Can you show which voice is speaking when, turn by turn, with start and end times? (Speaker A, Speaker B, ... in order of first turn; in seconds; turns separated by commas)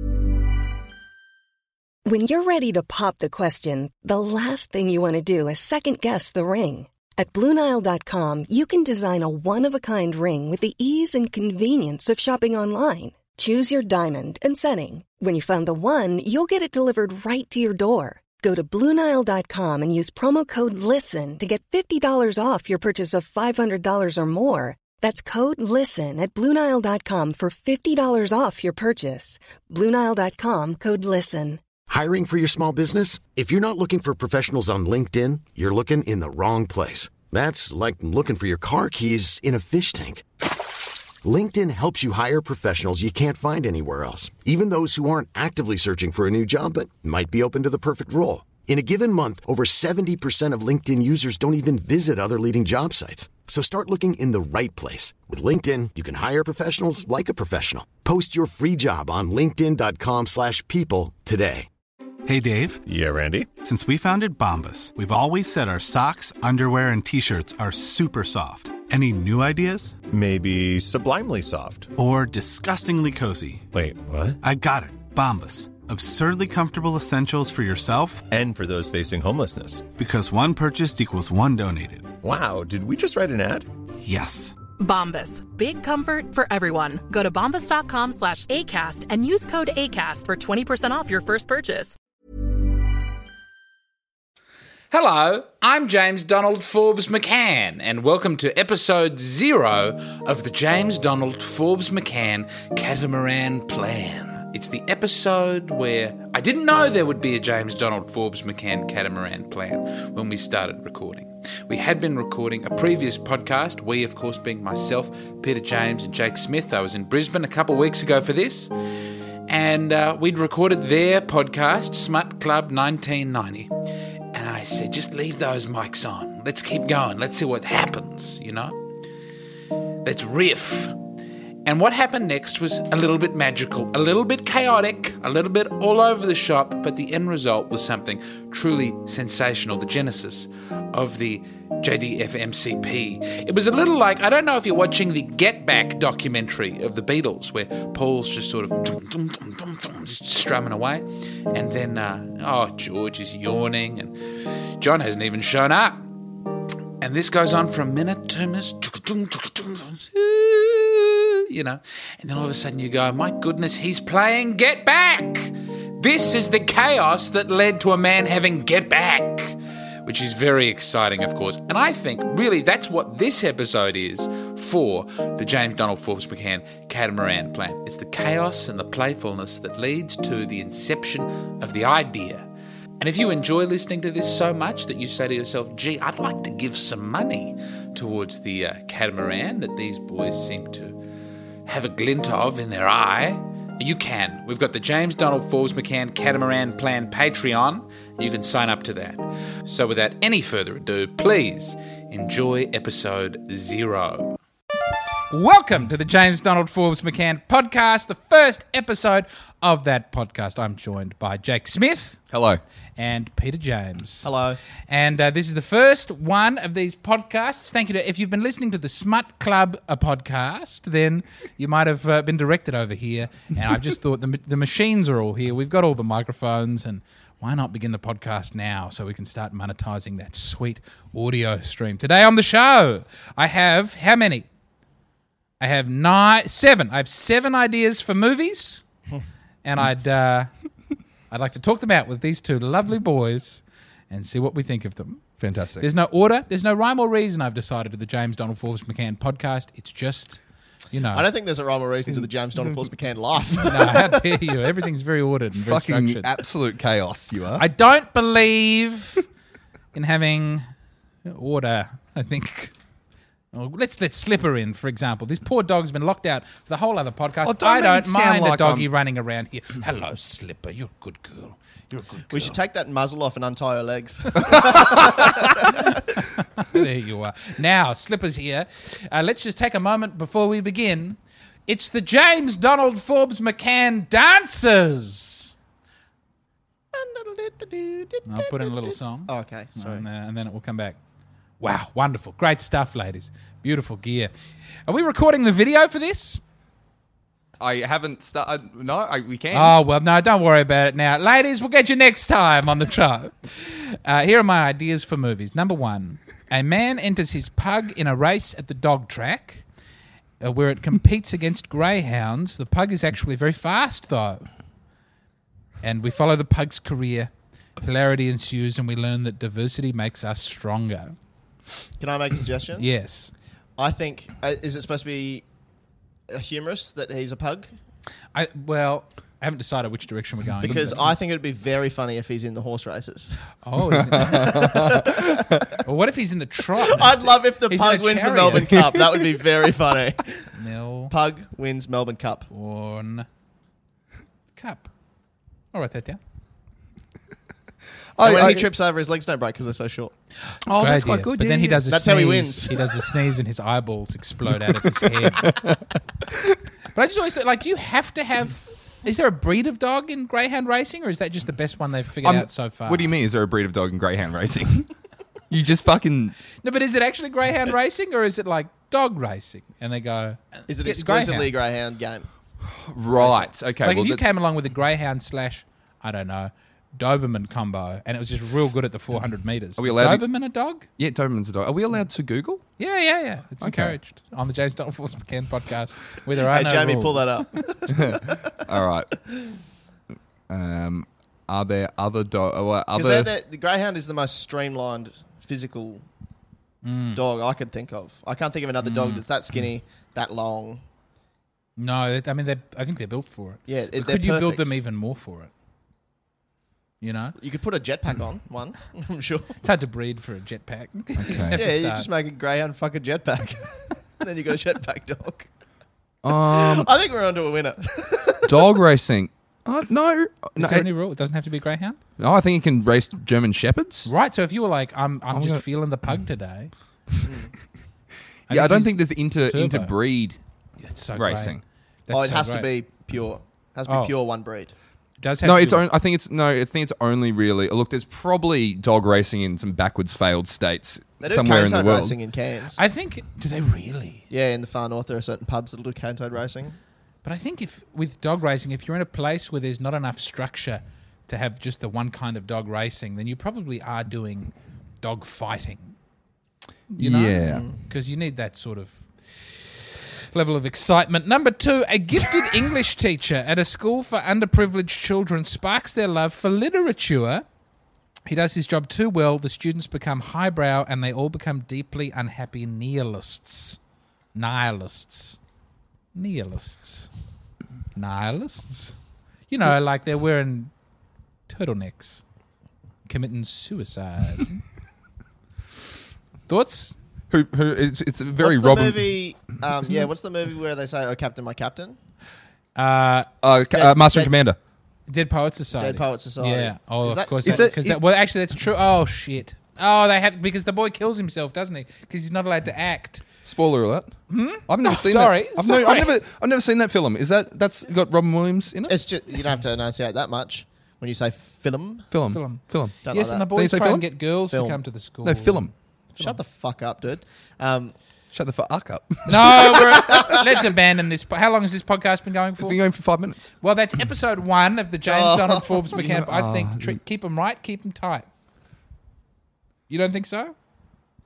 Speaker A: 2.1-31.6, Speaker B: 31.9-40.3, Speaker B: 41.2-61.7, Speaker C: 62.3-62.8, Speaker D: 62.9-63.5, Speaker C: 63.6-70.0, Speaker D: 70.1-71.9, Speaker C: 72.0-73.7, Speaker D: 73.7-74.4, Speaker C: 74.4-78.2, Speaker D: 78.3-79.9, Speaker C: 80.0-82.1, Speaker D: 82.2-83.7, Speaker C: 84.0-84.6, Speaker E: 84.8-92.0, Speaker F: 94.9-118.7, Speaker F: 119.5-123.7, Speaker F: 124.3-128.8, Speaker F: 130.0-131.0, Speaker F: 131.7-156.1, Speaker F: 157.0-182.5, Speaker F: 183.0-191.0, Speaker F: 191.7-204.4, Speaker F: 205.3-212.2, Speaker G: 212.3-212.6, Speaker F: 213.0-214.3, Speaker H: 214.2-214.6, Speaker F: 214.9-234.5, Speaker F: 235.6-238.8, Speaker F: 239.6-240.5, Speaker F: 241.3-245.2, Speaker G: 245.4-245.9, Speaker F: 245.8-251.3, Speaker H: 251.1-254.2, Speaker F: 253.7-256.3, Speaker G: 255.7-257.6, Speaker F: 257.6-259.2, Speaker F: 259.9-260.7, Speaker F: 261.3-262.7, Speaker F: 263.5-272.6, Speaker G: 267.4-268.9, Speaker H: 272.3-276.0, Speaker F: 275.8-285.5, Speaker H: 286.9-290.1, Speaker F: 288.3-291.0, Speaker F: 291.6-294.3, Speaker F: 294.9-296.4, Speaker G: 297.6-299.8, Speaker F: 299.5-309.6, Speaker F: 310.4-314.5, Speaker F: 315.8-321.1, Speaker H: 322.0-322.9, Speaker F: 322.8-323.3, Speaker H: 323.8-325.5, Speaker H: 326.3-327.7, Speaker F: 328.4-331.0, Speaker H: 330.6-333.4, Speaker F: 333.6-334.8, Speaker G: 334.2-335.6, Speaker H: 334.3-335.3, Speaker F: 335.8-338.8, Speaker H: 336.9-340.5, Speaker F: 340.6-341.1, Speaker H: 341.1-342.5, Speaker F: 342.5-343.3, Speaker F: 344.6-344.9, Speaker F: 345.7-346.2, Speaker G: 348.2-348.7, Speaker H: 348.2-350.1, Speaker G: 350.7-351.9, Speaker F: 350.7-355.6, Speaker H: 351.9-352.8, Speaker G: 355.4-355.8, Speaker F: 356.9-363.1, Speaker G: 362.2-364.9, Speaker G: 365.5-366.4, Speaker F: 366.6-371.5, Speaker H: 370.7-372.3, Speaker G: 372.7-374.2, Speaker F: 373.8-380.9, Speaker G: 379.8-380.3, Speaker G: 381.0-382.6, Speaker F: 382.8-387.5, Speaker G: 383.6-384.0, Speaker H: 386.4-388.2, Speaker G: 387.9-389.1, Speaker G: 390.5-393.3, Speaker H: 392.9-396.1, Speaker F: 396.8-397.2, Speaker H: 397.1-400.8, Speaker F: 398.8-399.2, Speaker F: 401.8-405.5, Speaker H: 403.7-404.7, Speaker F: 407.0-407.4, Speaker H: 407.4-409.6, Speaker F: 409.6-412.1, Speaker G: 411.2-411.6, Speaker H: 411.5-415.5, Speaker G: 416.2-416.9, Speaker H: 416.4-418.5, Speaker G: 418.5-420.9, Speaker F: 420.6-422.0, Speaker G: 422.2-424.1, Speaker F: 424.1-426.7, Speaker G: 425.3-425.6, Speaker H: 427.2-427.5, Speaker F: 428.5-429.9, Speaker G: 428.5-430.4, Speaker F: 430.8-431.6, Speaker G: 431.2-431.6, Speaker F: 432.1-432.7, Speaker H: 432.1-434.7, Speaker F: 433.9-434.1, Speaker F: 435.2-435.9, Speaker G: 435.4-442.2, Speaker H: 441.2-442.8, Speaker F: 442.8-444.2, Speaker H: 444.3-446.8, Speaker F: 447.2-456.0, Speaker F: 456.9-467.4, Speaker G: 457.0-457.6, Speaker H: 457.5-457.7, Speaker F: 468.3-473.8, Speaker F: 474.4-475.4, Speaker F: 476.1-477.1, Speaker F: 478.0-479.0, Speaker F: 479.5-480.7, Speaker F: 481.5-482.2, Speaker F: 483.1-484.6, Speaker F: 486.5-486.9, Speaker G: 487.3-489.1, Speaker H: 488.4-492.0, Speaker F: 492.8-493.3, Speaker G: 493.4-494.6, Speaker H: 493.7-494.3, Speaker F: 495.1-503.3, Speaker H: 495.8-497.7, Speaker G: 497.4-498.0, Speaker G: 503.4-508.9, Speaker F: 504.3-506.1, Speaker H: 508.9-512.1, Speaker G: 512.1-513.0, Speaker F: 512.3-515.7, Speaker H: 513.0-513.5, Speaker G: 513.5-514.2, Speaker H: 514.5-514.8, Speaker G: 515.2-515.7, Speaker H: 516.2-517.9, Speaker G: 518.3-520.3, Speaker F: 519.3-522.8, Speaker G: 522.6-523.5, Speaker F: 523.6-528.3, Speaker H: 525.1-525.8, Speaker G: 525.9-527.0, Speaker F: 529.9-530.5